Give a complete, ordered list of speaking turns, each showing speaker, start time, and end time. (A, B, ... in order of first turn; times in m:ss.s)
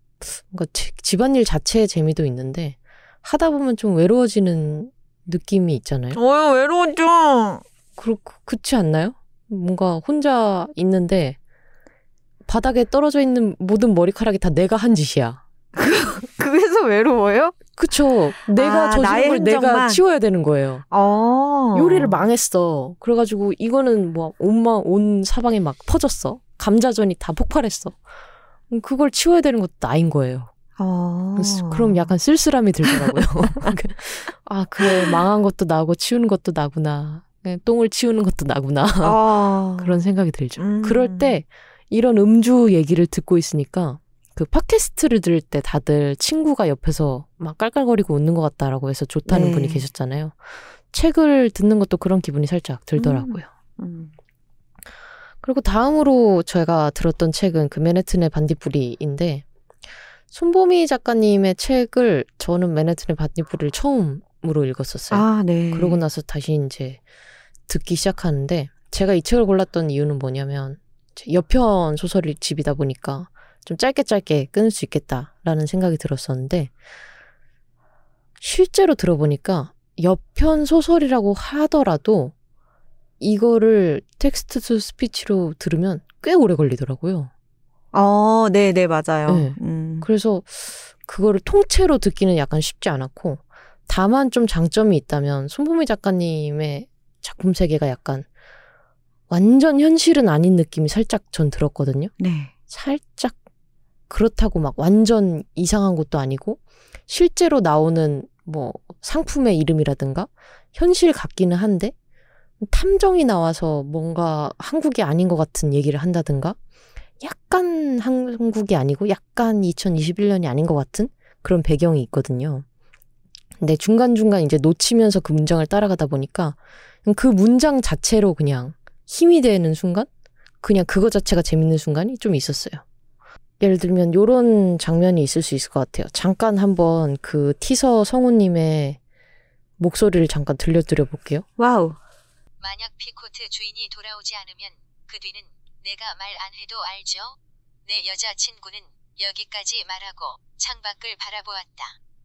0:00.2-0:06.2 A
0:06.1-0:07.6 B
0:08.0-0:11.4 A
0:12.5-0:15.4 A
0:15.8-0:17.6 B
0:17.8-0:20.8 A
0:18.5-0:20.0 B
0:20.9-0:22.2 B
0:21.7-0:28.0 A
0:28.7-0:30.5 A
0:30.8-0:32.1 B
0:31.4-0:39.2 A
0:32.9-0:33.8 B
0:34.8-0:35.2 B
0:39.0-0:40.0 B
0:39.8-0:53.5 A
0:40.6-0:41.4 B
0:49.3-0:49.8 B
0:53.0-0:54.1 B
0:55.4-0:59.4 A
1:00.3-1:07.0 A
1:05.1-1:06.0 B
1:07.7-1:16.7 A
1:18.4-1:22.3 A
1:23.2-1:27.3 A
1:27.9-1:30.1 B
1:29.3-1:38.3 A
1:39.3-1:42.1 A
1:42.2-1:42.5 B
1:42.7-1:43.4 A
1:44.1-1:51.9 A
1:52.6-1:56.6 A
1:57.2-2:02.6 A
2:03.6-2:10.1 A
2:10.6-2:12.8 A
2:13.6-2:19.0 A
2:19.8-2:21.4 A
2:21.6-2:22.0 B
2:22.6-2:32.0 C